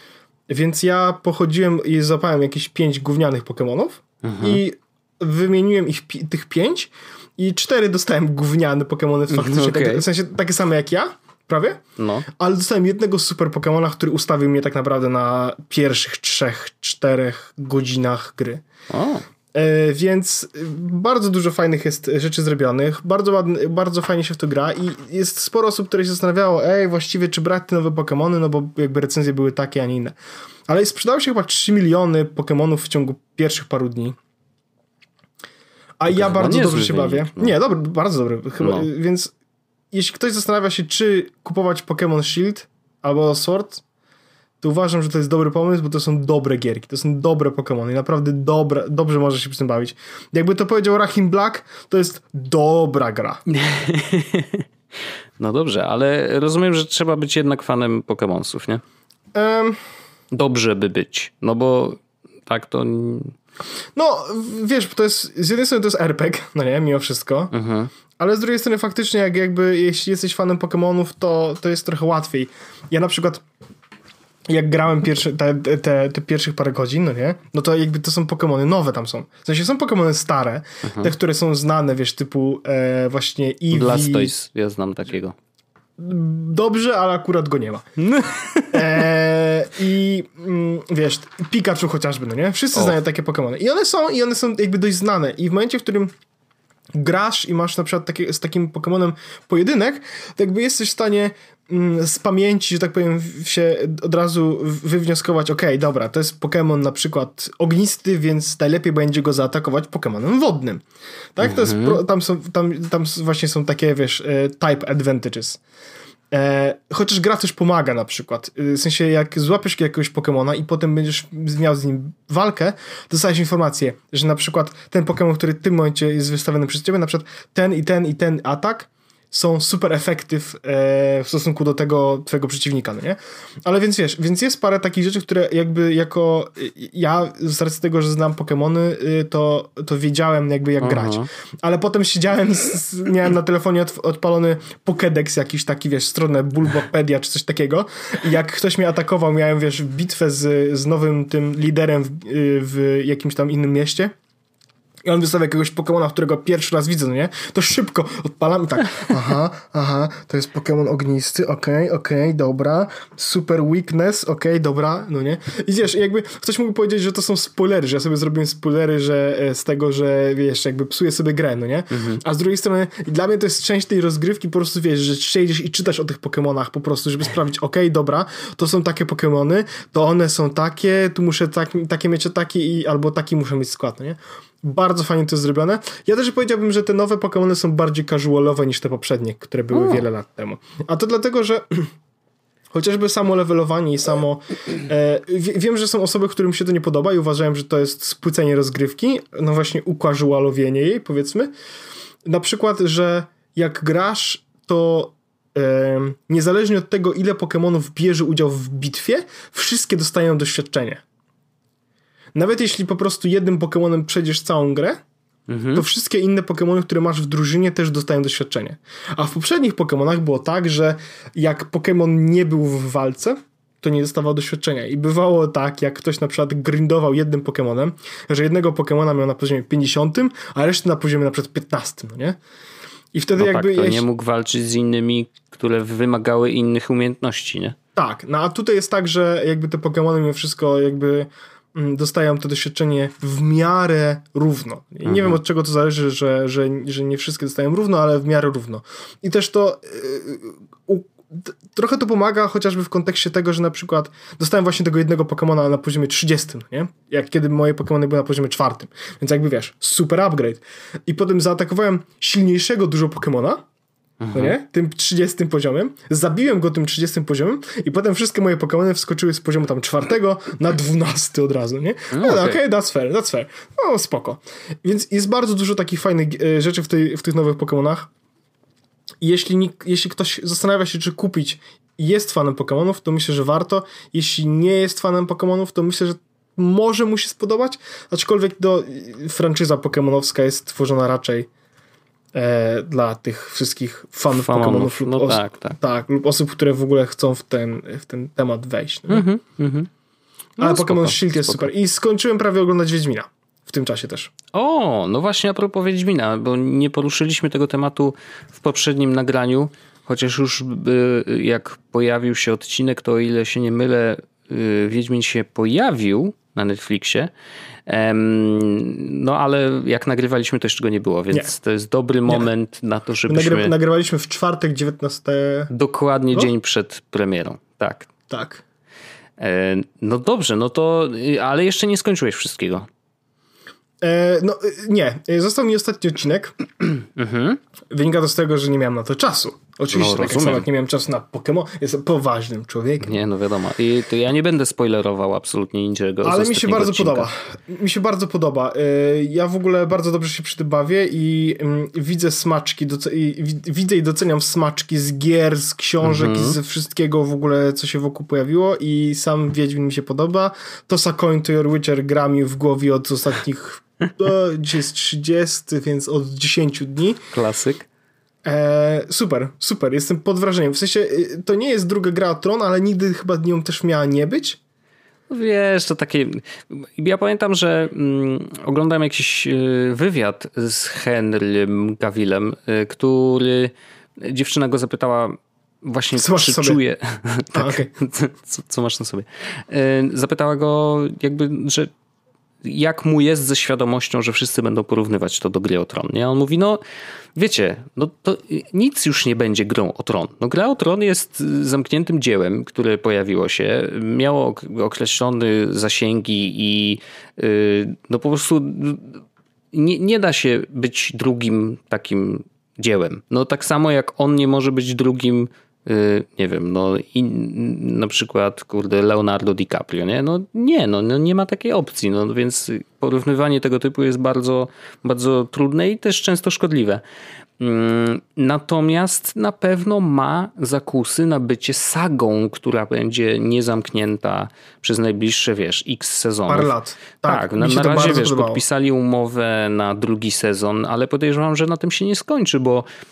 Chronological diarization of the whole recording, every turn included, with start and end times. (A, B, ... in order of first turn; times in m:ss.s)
0:00.5-0:18.6 A
0:04.2-0:04.6 B
0:09.3-0:10.0 B
0:12.0-0:12.3 B
0:18.9-0:19.2 B
0:19.5-0:30.2 A
0:30.7-0:34.2 A
0:36.0-0:39.3 A
0:36.1-0:37.6 B
0:38.6-0:38.9 B
0:39.9-0:43.8 A
0:44.6-0:53.4 A
0:53.5-0:54.6 B
0:55.4-0:58.8 B
0:59.3-0:59.8 A
1:00.3-1:03.3 B
1:04.0-1:07.5 A
1:07.5-1:07.9 B
1:08.2-1:13.4 A
1:14.5-1:24.3 A
1:23.7-1:25.4 B
1:26.0-1:27.9 A
1:28.0-1:28.8 B
1:28.7-1:36.1 A
1:37.0-1:50.8 A
1:51.4-1:55.6 A
1:51.4-1:52.0 B
1:56.3-2:34.1 A
2:20.8-2:21.3 B
2:35.0-3:11.9 A
2:51.9-2:52.2 B
3:09.7-3:10.0 B
3:12.7-3:21.5 A
3:22.2-3:31.0 A
3:32.4-3:35.0 A
3:35.5-3:35.8 B
3:35.7-3:52.4 A
3:53.1-3:54.1 A
3:53.4-3:57.8 B
3:58.0-4:23.6 A
4:05.0-4:05.4 B
4:24.2-4:24.6 B
4:24.3-4:38.1 A
4:32.1-4:32.6 B
4:39.2-4:51.5 A
4:52.3-4:59.3 A
4:54.3-4:55.8 B
4:59.1-4:59.9 B
5:00.6-5:01.7 B
5:00.6-5:04.3 A
5:04.5-5:17.3 B
5:17.9-5:23.7 B
5:23.3-5:25.7 A
5:25.7-5:28.1 B
5:28.3-5:28.6 A
5:29.4-5:32.9 B
5:34.0-5:36.6 A
5:36.9-5:37.6 B
5:37.9-5:43.2 A
5:39.9-5:40.7 B
5:43.0-5:47.3 B
5:46.2-6:07.2 A
5:56.0-5:56.6 B
6:07.3-6:07.9 B
6:08.4-6:14.6 A
6:15.3-6:31.9 B
6:26.2-6:26.8 A
6:27.5-6:27.9 A
6:32.6-6:36.8 B
6:37.4-6:49.2 B
6:49.7-7:07.0 B
7:07.6-7:22.9 B
7:16.5-7:18.6 A